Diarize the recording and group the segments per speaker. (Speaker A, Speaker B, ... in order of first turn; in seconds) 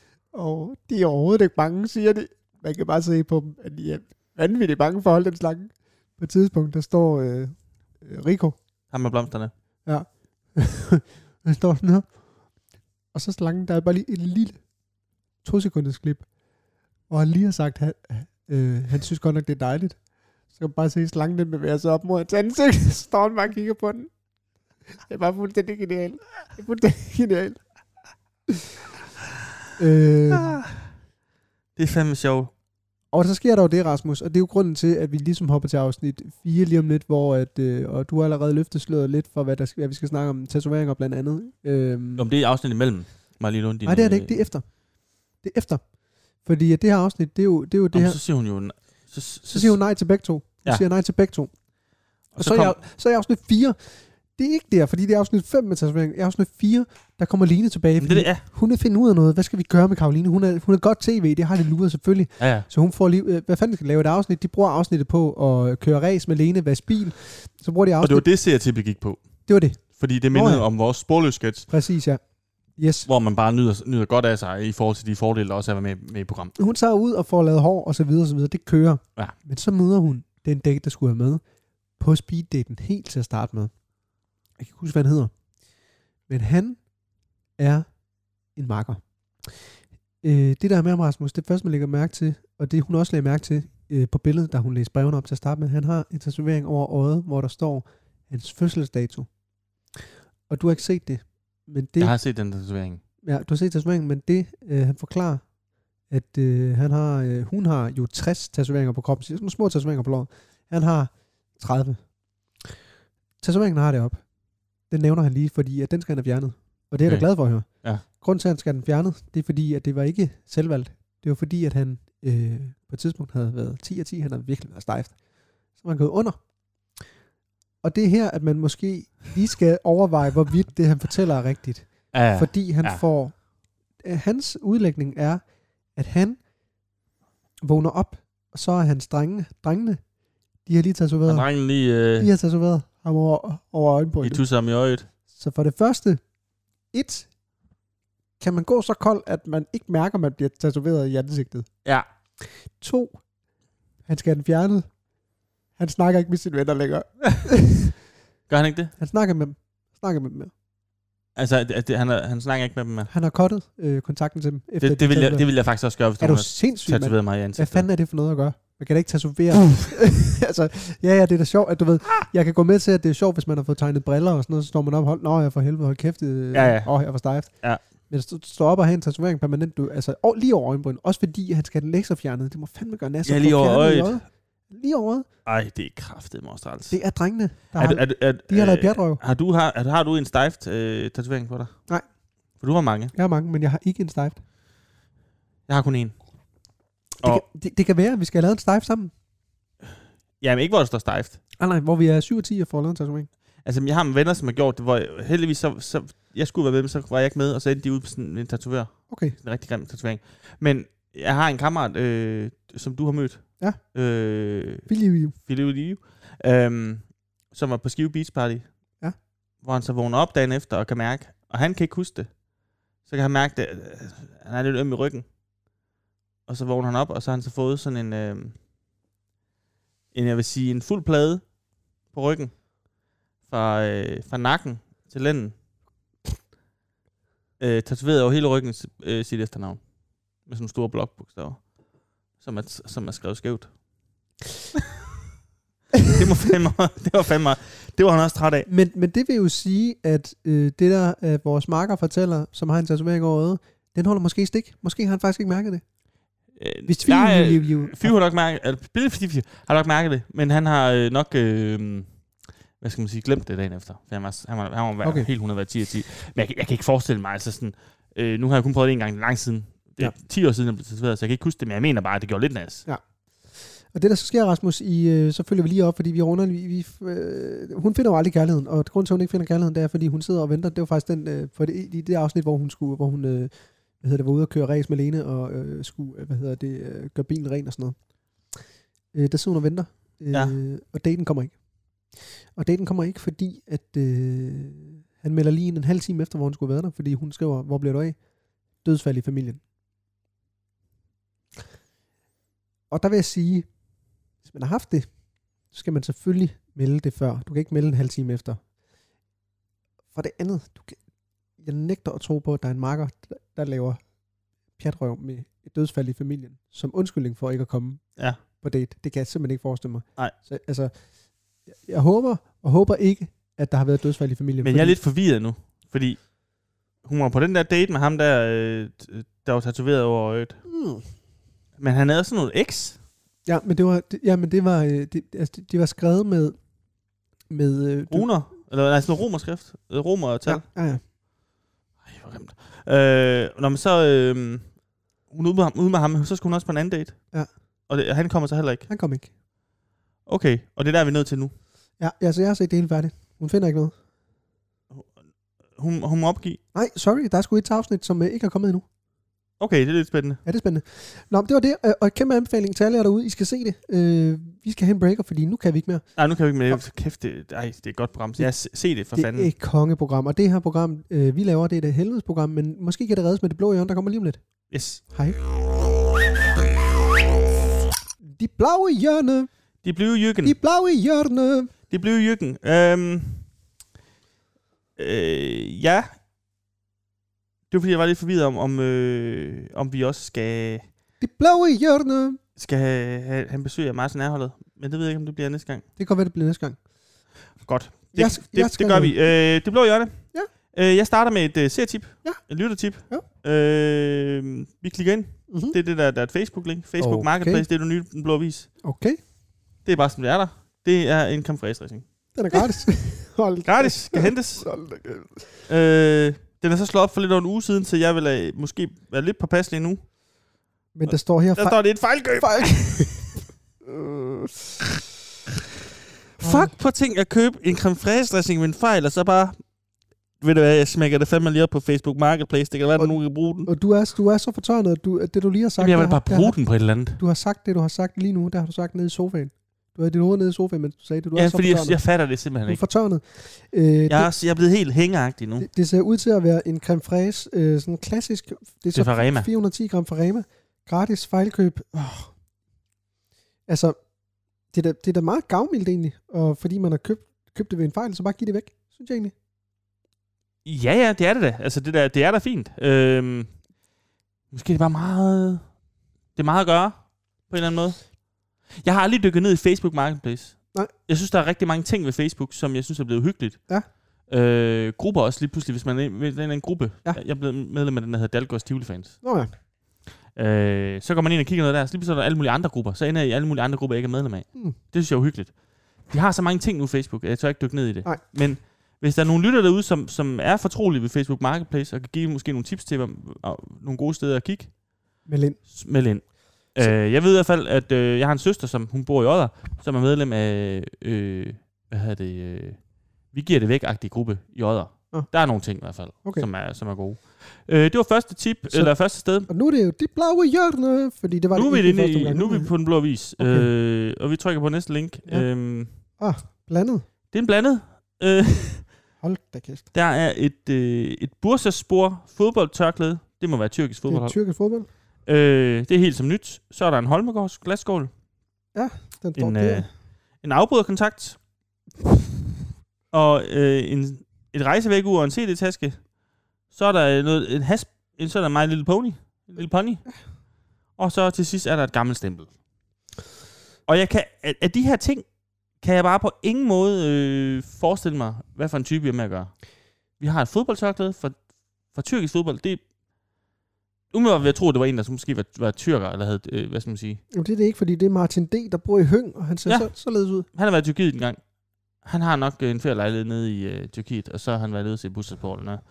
Speaker A: 0.3-8.6, 9.8-12.2, 13.1-14.6, 15.4-16.3, 17.1-24.1, 25.0-27.6, 29.8-30.6, 33.1-42.2, 43.8-44.8, 45.3-45.9, 46.4-48.2, 49.5-51.5, 52.4-68.3, 69.5-70.7, 71.7-73.1, 76.5-81.4, 82.0-83.7, 84.6-85.3, 86.3-86.9, 87.6-87.9, 88.5-89.7, 90.2-99.3, 100.5-102.1, 103.2-105.5, 106.1-112.8, 113.4-127.1, 127.8-133.4, 134.0-136.4, 137.6-140.0, 140.6-141.5, 142.2-144.4, 145.3-146.2, 146.9-147.3, 148.4-151.7, 152.4-153.2, 154.0-155.0, 155.8-157.9, 159.0-160.5, 163.1-185.3, 186.9-189.2, 193.1-194.4, 197.2-199.1, 201.6-203.3, 209.1-209.3, 214.9-215.3, 248.7-255.8, 256.9-258.1, 265.0-265.3, 272.9-288.0, 289.1-291.6, 292.5-298.2, 298.8-299.6, 302.9-303.7, 304.4-305.1, 305.7-308.6, 310.1-311.0, 311.6-314.1, 314.7-320.9, 321.6-325.0, 330.7-331.0, 333.4-336.6, 337.5-338.3, 340.4-341.0, 348.9-349.3, 352.0-353.9, 356.7-358.9, 360.4-366.1, 369.1-374.4, 375.0-375.4, 378.2-379.5, 380.4-381.7, 391.2-392.4, 396.0-396.8, 398.1-399.3, 405.5-405.8, 407.0-407.6, 408.8-409.2, 412.3-415.5, 420.9-424.6, 426.4-426.7, 433.0-442.1, 442.6-444.3, 445.6-452.3, 453.7-453.9, 454.7-459.3, 479.2-479.5, 495.2-495.7, 508.7-513.7, 515.2-517.0, 519.2-519.9, 524.1-524.9, 528.7-529.9, 557.3-560.5
Speaker B: 8.9-9.5, 30.3-30.9, 31.8-32.5, 42.1-44.4, 47.9-49.8, 52.3-52.8, 58.0-58.4, 62.4-62.7, 68.0-71.7, 73.0-76.5, 102.0-103.0, 117.0-117.3, 132.1-133.0, 141.2-142.3, 144.2-145.1, 158.5-158.9, 161.3-163.1, 164.8-167.9, 176.5-177.0, 177.5-177.8, 183.2-184.2, 185.4-187.0, 187.8-191.8, 192.6-193.1, 195.7-196.2, 200.4-201.4, 203.6-218.8, 219.6-222.4, 223.0-225.3, 226.5-228.6, 230.1-232.7, 233.4-235.6, 237.6-241.8, 242.3-243.8, 246.1-248.7, 256.5-272.9, 290.3-290.6, 324.6-326.4, 326.9-330.6, 331.8-333.0, 338.1-340.6, 342.0-348.9, 350.2-351.5, 354.9-356.6, 359.6-360.4, 366.2-369.5, 374.7-375.0, 379.8-380.6, 381.9-383.5, 384.9-386.1, 387.7-390.9, 392.6-395.9, 397.6-408.7, 409.8-412.6, 413.6-414.7, 415.7-420.1, 421.1-423.3, 426.4-429.7, 430.4-433.7, 435.8-437.2, 441.3-442.8, 444.1-445.7, 448.9-449.5, 460.6-463.6, 464.5-465.8, 466.3-479.2, 480.3-494.8, 495.7-509.5, 511.5-516.0, 517.3-519.0, 519.9-524.4, 525.2-528.1, 529.4-531.4, 533.1-536.1, 536.7-540.0, 541.0-542.5, 543.9-552.8, 554.1-557.2, 559.6-559.9, 560.5-561.4, 562.0-565.8